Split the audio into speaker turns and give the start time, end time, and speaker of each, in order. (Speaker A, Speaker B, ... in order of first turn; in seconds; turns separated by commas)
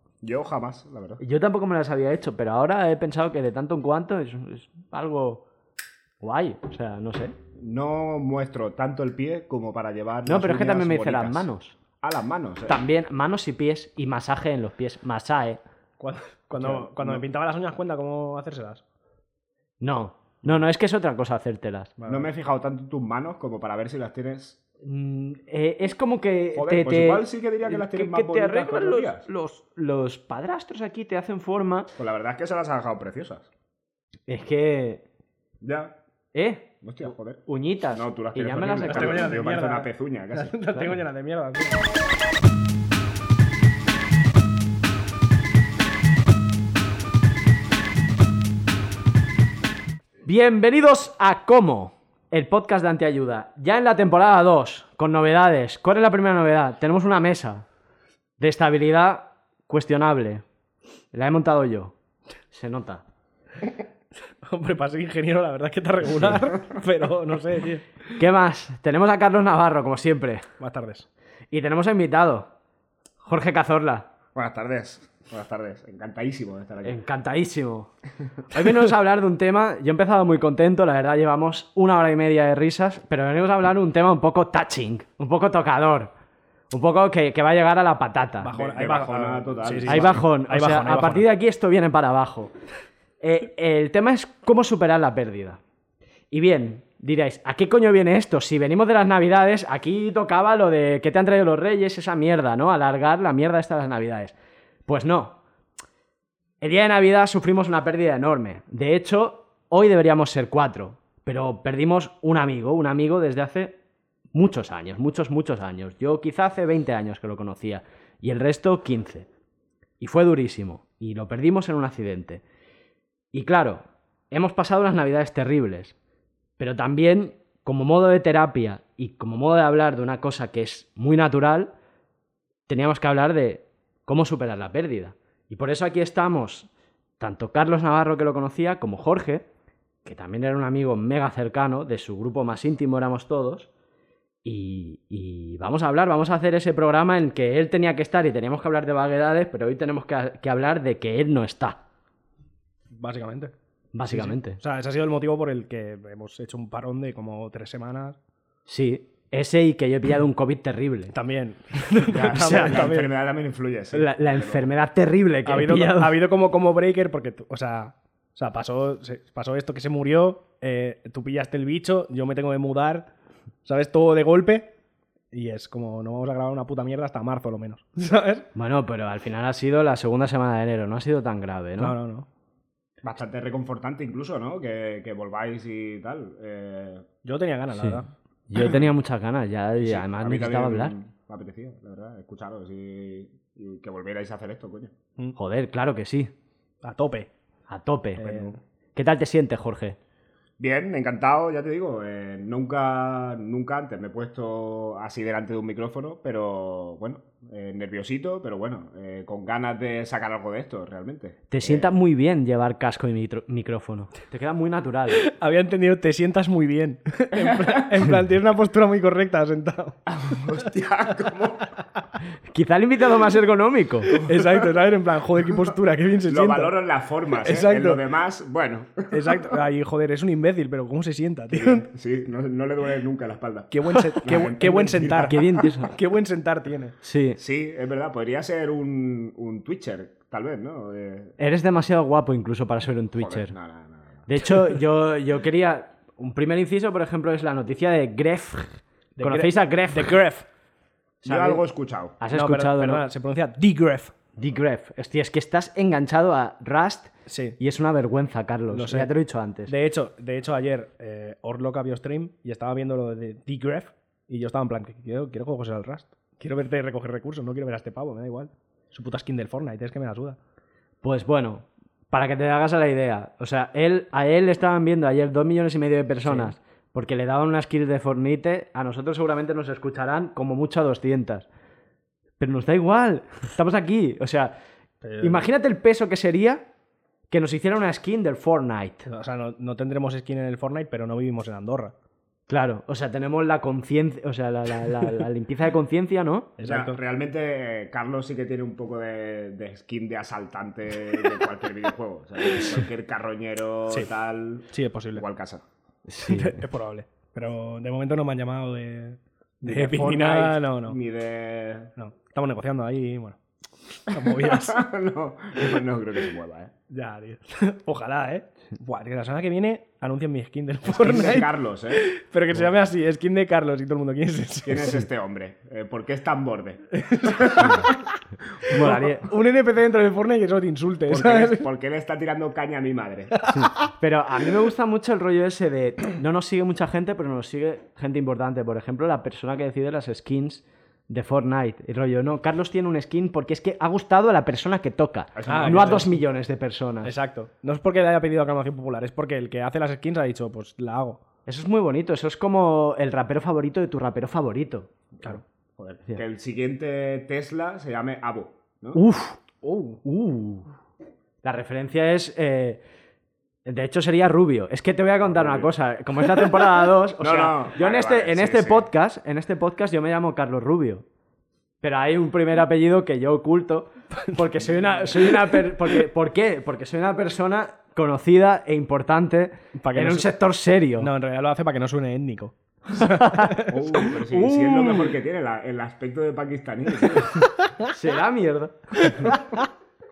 Speaker A: 0.2-1.2, Speaker B: 1.2-5.4, Speaker B: 6.2-7.3, Speaker A: 7.6-11.5, Speaker B: 10.2-11.8, Speaker A: 12.0-12.8, Speaker B: 12.7-15.6, Speaker C: 16.0-18.8, Speaker A: 16.6-17.2, Speaker B: 19.8-21.9, Speaker C: 22.0-22.3, Speaker A: 22.1-24.6, Speaker B: 24.8-31.9, Speaker A: 26.5-29.3, Speaker A: 32.0-33.5, Speaker B: 34.3-35.0, Speaker A: 35.6-36.0, Speaker B: 36.3-39.4, Speaker A: 36.8-40.5, Speaker C: 38.9-41.8, Speaker B: 50.2-57.6, Speaker B: 58.4-60.4, Speaker B: 61.1-62.0, Speaker B: 62.5-63.0, Speaker C: 64.4-68.0, Speaker B: 68.2-70.5, Speaker C: 70.6-71.1, Speaker B: 71.5-72.5, Speaker B: 73.2-74.1, Speaker A: 74.3-77.0, Speaker B: 76.8-77.9, Speaker B: 78.5-86.1, Speaker B: 86.7-88.5, Speaker C: 88.4-91.2, Speaker A: 88.5-90.2, Speaker B: 89.8-92.5, Speaker B: 93.2-95.6, Speaker B: 96.3-104.3, Speaker B: 104.8-105.4, Speaker B: 106.6-113.8, Speaker B: 114.3-119.3, Speaker B: 120.0-122.4, Speaker B: 123.3-125.9, Speaker B: 126.6-131.7, Speaker B: 132.7-139.4, Speaker B: 140.0-143.7, Speaker B: 144.4-151.8, Speaker C: 152.9-153.5, Speaker B: 153.9-154.6, Speaker C: 154.1-158.2, Speaker B: 158.7-161.1, Speaker C: 161.1-163.1, Speaker A: 162.1-164.7, Speaker B: 162.2-162.8, Speaker B: 163.9-166.2, Speaker C: 165.4-173.1, Speaker C: 173.6-174.7, Speaker C: 175.3-178.5, Speaker B: 178.5-181.9, Speaker C: 181.8-182.3, Speaker A: 183.0-187.1, Speaker C: 187.2-188.1, Speaker B: 187.8-190.9, Speaker A: 189.8-194.9, Speaker B: 195.3-196.3, Speaker C: 196.8-197.3, Speaker B: 197.7-200.0, Speaker C: 198.2-198.6, Speaker A: 200.6-212.0, Speaker B: 211.5-215.3, Speaker C: 215.2-220.0, Speaker A: 217.3-218.0, Speaker A: 220.1-221.7, Speaker B: 222.5-224.2, Speaker C: 224.2-226.7, Speaker A: 224.2-224.7, Speaker A: 226.3-229.6, Speaker C: 227.4-228.0, Speaker C: 229.1-231.9, Speaker A: 231.5-235.3, Speaker C: 233.7-236.9, Speaker B: 235.3-235.9, Speaker B: 237.0-237.4, Speaker A: 237.4-241.4, Speaker B: 241.4-243.5, Speaker A: 243.2-244.3, Speaker B: 244.3-250.2, Speaker C: 249.2-250.4, Speaker B: 251.2-251.6, Speaker A: 251.2-252.2, Speaker B: 252.2-253.0, Speaker C: 252.3-254.1, Speaker B: 254.4-259.7, Speaker C: 257.2-257.6, Speaker C: 258.7-259.1, Speaker C: 259.7-270.4, Speaker B: 271.0-281.5, Speaker C: 276.2-276.5, Speaker B: 282.4-284.5, Speaker C: 285.0-285.4, Speaker B: 285.2-286.6, Speaker B: 287.3-289.1, Speaker C: 289.1-291.9, Speaker B: 292.5-296.5, Speaker C: 296.6-297.0, Speaker A: 296.6-305.6, Speaker C: 304.7-305.2, Speaker B: 306.1-306.6, Speaker C: 306.3-311.0, Speaker A: 309.6-311.9, Speaker C: 312.0-313.4, Speaker C: 313.9-314.8, Speaker A: 314.1-316.7, Speaker C: 316.9-325.0, Speaker A: 320.8-322.0, Speaker A: 324.6-327.9, Speaker C: 326.9-328.0, Speaker B: 328.6-329.3, Speaker C: 328.7-331.6, Speaker A: 331.1-333.4, Speaker C: 333.4-333.6, Speaker B: 333.5-347.1, Speaker A: 345.3-346.1, Speaker C: 345.5-346.2, Speaker C: 347.0-351.2, Speaker B: 351.4-354.9, Speaker A: 355.2-359.0, Speaker B: 358.9-359.4, Speaker C: 359.6-360.0, Speaker B: 360.0-360.7, Speaker B: 361.4-362.8, Speaker B: 363.6-371.0, Speaker A: 365.2-365.7, Speaker A: 367.2-368.9, Speaker B: 371.8-381.1, Speaker C: 375.0-375.9, Speaker C: 379.8-380.3, Speaker C: 381.0-384.8, Speaker B: 382.9-383.6, Speaker A: 383.7-387.4, Speaker B: 387.8-389.4, Speaker C: 389.0-389.4